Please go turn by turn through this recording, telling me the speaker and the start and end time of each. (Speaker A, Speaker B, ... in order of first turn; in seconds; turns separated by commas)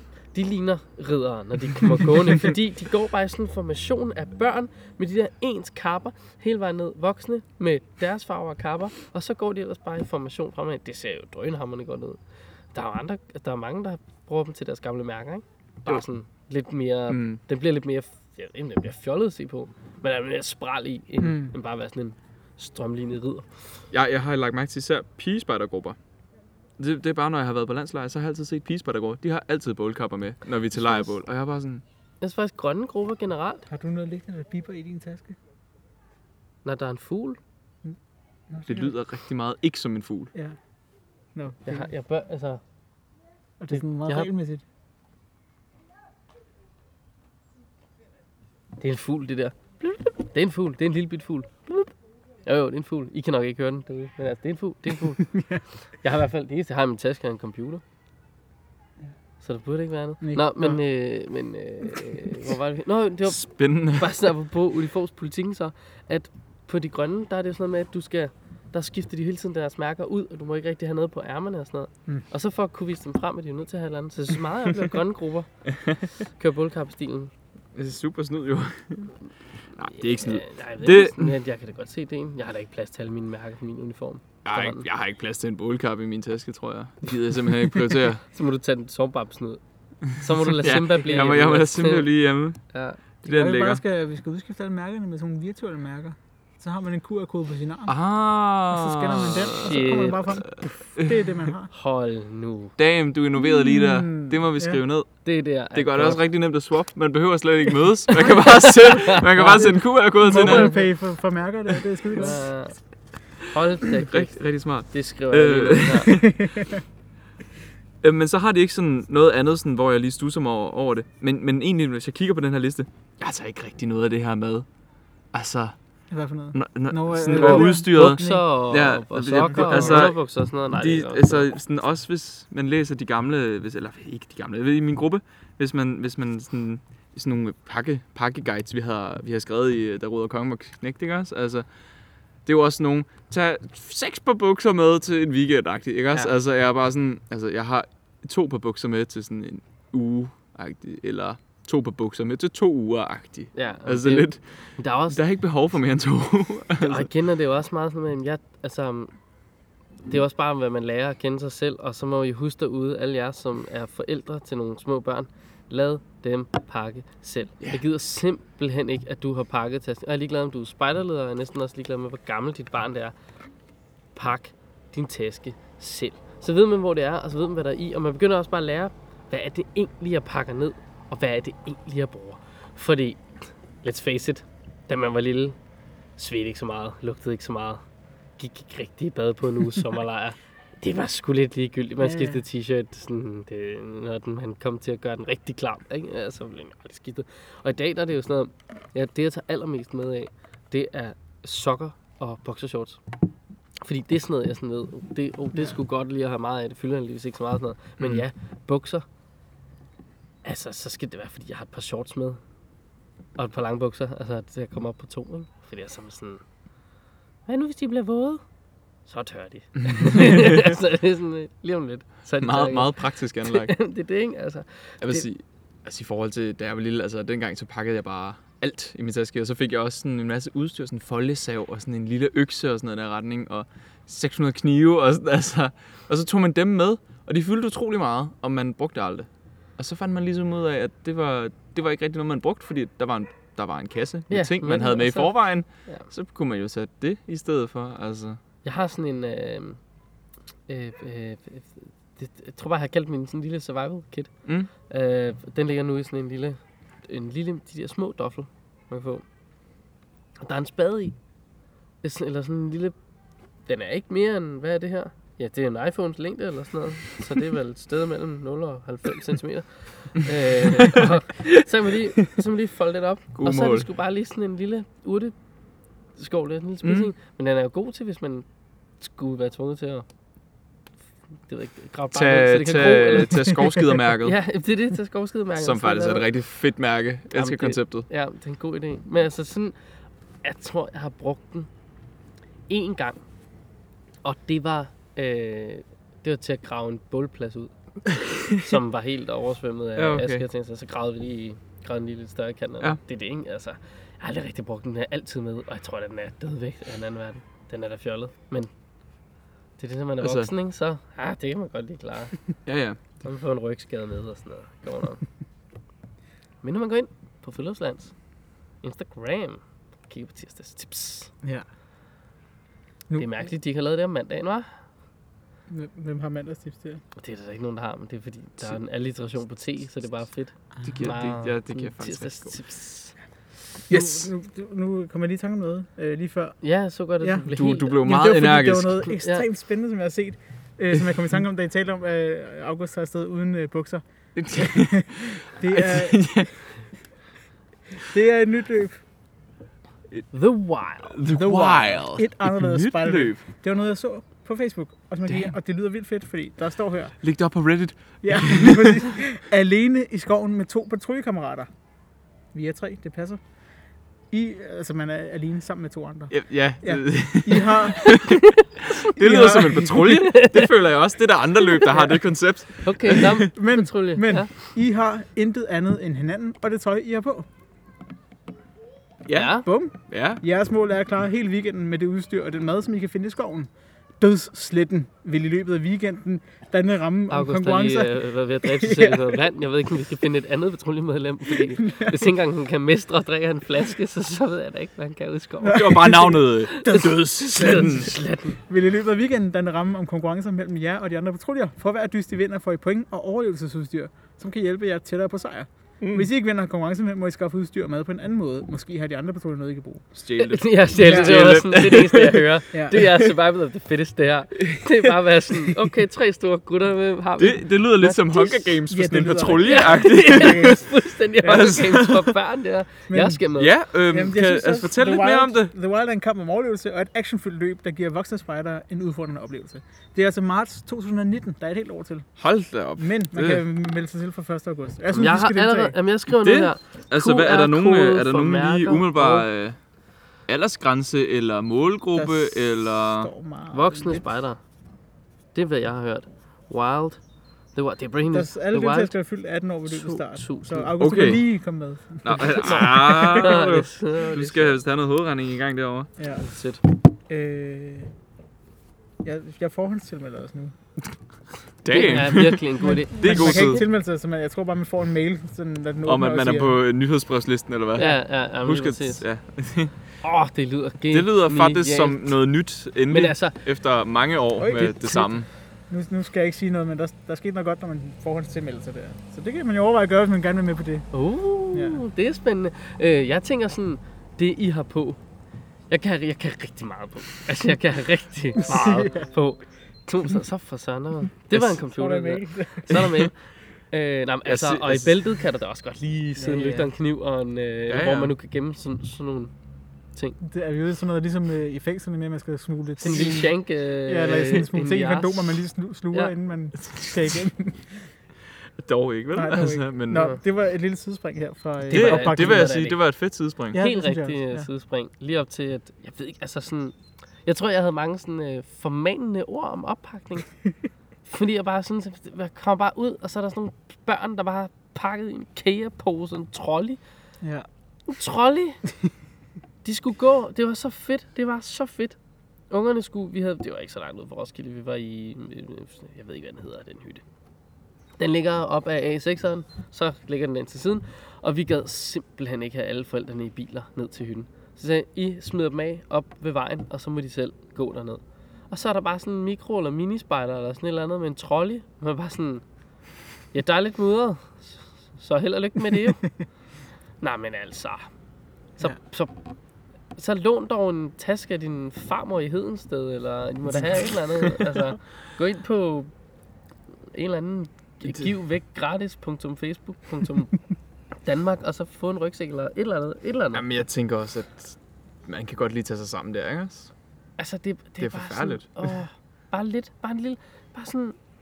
Speaker A: 0.3-12.2, Speaker A: 12.7-23.5, Speaker B: 17.1-17.4, Speaker C: 21.2-21.5, Speaker B: 23.9-26.0, Speaker B: 26.8-31.8, Speaker A: 32.2-33.7, Speaker C: 33.7-35.4, Speaker A: 36.6-37.4, Speaker C: 38.5-38.9, Speaker B: 38.7-40.3, Speaker C: 41.4-41.9, Speaker A: 41.7-42.6, Speaker C: 43.6-44.6, Speaker A: 48.8-51.9, Speaker A: 52.5-55.3, Speaker C: 55.2-55.6, Speaker A: 56.0-57.8, Speaker A: 59.4-75.5, Speaker C: 60.2-60.8, Speaker B: 63.3-64.3, Speaker B: 75.8-76.1, Speaker A: 76.4-77.3, Speaker B: 77.7-79.1, Speaker B: 79.8-81.4, Speaker A: 79.9-84.8, Speaker B: 84.5-88.2, Speaker A: 88.2-89.6, Speaker A: 90.1-92.1, Speaker B: 90.5-92.6, Speaker A: 92.7-93.0, Speaker B: 93.2-93.8, Speaker C: 93.2-98.0, Speaker B: 97.9-101.3, Speaker C: 98.7-101.7, Speaker A: 99.5-100.4, Speaker A: 101.7-102.7, Speaker B: 102.8-110.8, Speaker C: 103.5-104.8, Speaker A: 105.2-106.2, Speaker A: 108.2-109.8, Speaker C: 109.4-112.4, Speaker A: 110.3-110.8, Speaker A: 112.2-112.8, Speaker A: 113.4-114.4, Speaker B: 113.8-116.5, Speaker A: 114.9-116.2, Speaker C: 116.2-116.8, Speaker B: 118.0-124.7, Speaker B: 125.3-125.8, Speaker C: 126.1-128.4, Speaker B: 126.5-130.2, Speaker A: 127.3-131.5, Speaker C: 129.5-130.1, Speaker B: 130.7-141.7, Speaker B: 142.5-154.4, Speaker A: 153.5-155.2, Speaker B: 155.1-157.1, Speaker A: 156.8-159.1, Speaker A: 160.1-173.2, Speaker A: 174.2-185.6, Speaker A: 186.2-187.8, Speaker A: 188.4-203.0, Speaker C: 192.0-192.4, Speaker A: 203.8-209.1, Speaker A: 210.4-212.4, Speaker A: 213.4-216.4, Speaker A: 217.5-218.4, Speaker A: 219.1-225.3, Speaker B: 219.9-220.7, Speaker B: 222.4-223.8, Speaker B: 225.0-239.3, Speaker B: 239.8-248.4, Speaker A: 244.3-246.1, Speaker A: 248.7-249.8, Speaker A: 250.7-254.3, Speaker A: 254.9-259.2, Speaker A: 260.4-261.2, Speaker A: 262.0-263.0, Speaker A: 263.7-275.3, Speaker B: 270.8-271.0, Speaker B: 273.4-273.9, Speaker A: 276.2-278.4, Speaker B: 276.8-277.1, Speaker A: 279.0-280.1, Speaker A: 281.5-283.6, Speaker B: 282.1-284.4, Speaker A: 284.2-286.3, Speaker B: 285.6-288.1, Speaker A: 287.3-289.8, Speaker A: 290.4-291.7, Speaker A: 292.7-293.2, Speaker A: 294.2-297.7, Speaker A: 298.5-308.7, Speaker B: 300.0-300.4, Speaker A: 309.8-312.4, Speaker B: 310.2-310.5, Speaker B: 312.7-313.1, Speaker A: 313.2-315.2, Speaker A: 316.6-318.1, Speaker A: 318.8-321.3, Speaker A: 323.2-324.8, Speaker C: 325.7-327.0, Speaker A: 327.2-333.1, Speaker B: 330.8-332.6, Speaker B: 333.9-334.3, Speaker C: 333.9-336.6, Speaker A: 336.6-338.0, Speaker C: 337.2-346.5, Speaker B: 337.5-339.1, Speaker A: 339.2-339.5, Speaker B: 344.4-346.6, Speaker C: 348.1-349.0, Speaker A: 350.3-351.2, Speaker B: 351.1-353.4, Speaker C: 351.3-357.1, Speaker B: 357.2-359.1, Speaker C: 358.2-361.7, Speaker C: 362.5-363.4, Speaker C: 364.3-368.3, Speaker B: 366.3-373.5, Speaker A: 368.0-369.1, Speaker C: 369.2-370.2, Speaker A: 369.9-370.7, Speaker C: 371.9-372.2, Speaker A: 372.8-374.5, Speaker C: 373.5-377.5, Speaker B: 379.3-380.4, Speaker A: 379.3-379.7, Speaker C: 379.6-389.4, Speaker A: 387.3-398.6, Speaker C: 391.6-392.3, Speaker C: 395.6-398.1, Speaker B: 395.7-398.1, Speaker C: 398.7-410.1, Speaker B: 406.0-406.3, Speaker B: 410.2-412.5, Speaker A: 410.4-418.8, Speaker C: 411.0-411.6, Speaker C: 412.7-413.0, Speaker B: 414.6-414.9, Speaker B: 417.4-420.9, Speaker C: 418.9-420.8, Speaker A: 419.6-423.7, Speaker C: 421.4-421.8, Speaker B: 421.4-422.4, Speaker C: 423.1-423.4, Speaker B: 423.6-425.7, Speaker C: 424.1-432.3, Speaker B: 432.4-433.6, Speaker C: 433.0-435.9, Speaker A: 435.1-439.5, Speaker B: 436.3-439.8, Speaker B: 440.5-443.3, Speaker C: 442.1-444.3, Speaker A: 443.7-444.6, Speaker A: 445.6-447.2, Speaker A: 447.8-449.1, Speaker C: 448.3-453.6, Speaker A: 449.9-451.0, Speaker B: 451.0-451.4, Speaker B: 452.2-456.1, Speaker A: 452.5-454.8, Speaker C: 456.2-456.4, Speaker A: 456.4-456.8, Speaker C: 457.3-458.1, Speaker C: 459.2-460.8, Speaker B: 461.8-463.9, Speaker A: 461.9-463.9, Speaker C: 461.9-462.3, Speaker C: 462.8-466.8, Speaker B: 466.1-469.9, Speaker A: 468.0-469.2, Speaker A: 470.2-472.3, Speaker B: 471.1-475.5, Speaker A: 473.1-473.6, Speaker C: 474.6-475.3, Speaker C: 475.9-481.1, Speaker A: 481.1-485.2, Speaker C: 481.7-482.0, Speaker A: 485.9-493.3, Speaker C: 488.6-489.3, Speaker C: 491.8-493.1, Speaker B: 492.9-493.3, Speaker A: 493.9-499.5, Speaker B: 494.5-495.2, Speaker C: 496.4-496.9, Speaker B: 497.9-498.4, Speaker C: 500.4-508.1, Speaker A: 503.0-506.3, Speaker B: 508.8-510.3, Speaker C: 509.3-512.8, Speaker A: 511.9-513.0, Speaker B: 511.9-513.8, Speaker C: 513.7-514.7, Speaker A: 513.8-520.5, Speaker A: 521.3-527.0, Speaker C: 527.4-527.7, Speaker A: 528.1-528.8, Speaker A: 529.8-532.2, Speaker A: 532.7-537.2, Speaker A: 538.2-552.6, Speaker A: 553.5-556.3, Speaker A: 557.2-558.1, Speaker A: 558.8-559.3, Speaker A: 560.2-566.1, Speaker A: 567.1-570.6, Speaker B: 568.0-568.3, Speaker A: 571.2-573.7, Speaker B: 573.5-576.9, Speaker A: 577.4-581.2, Speaker B: 578.0-579.0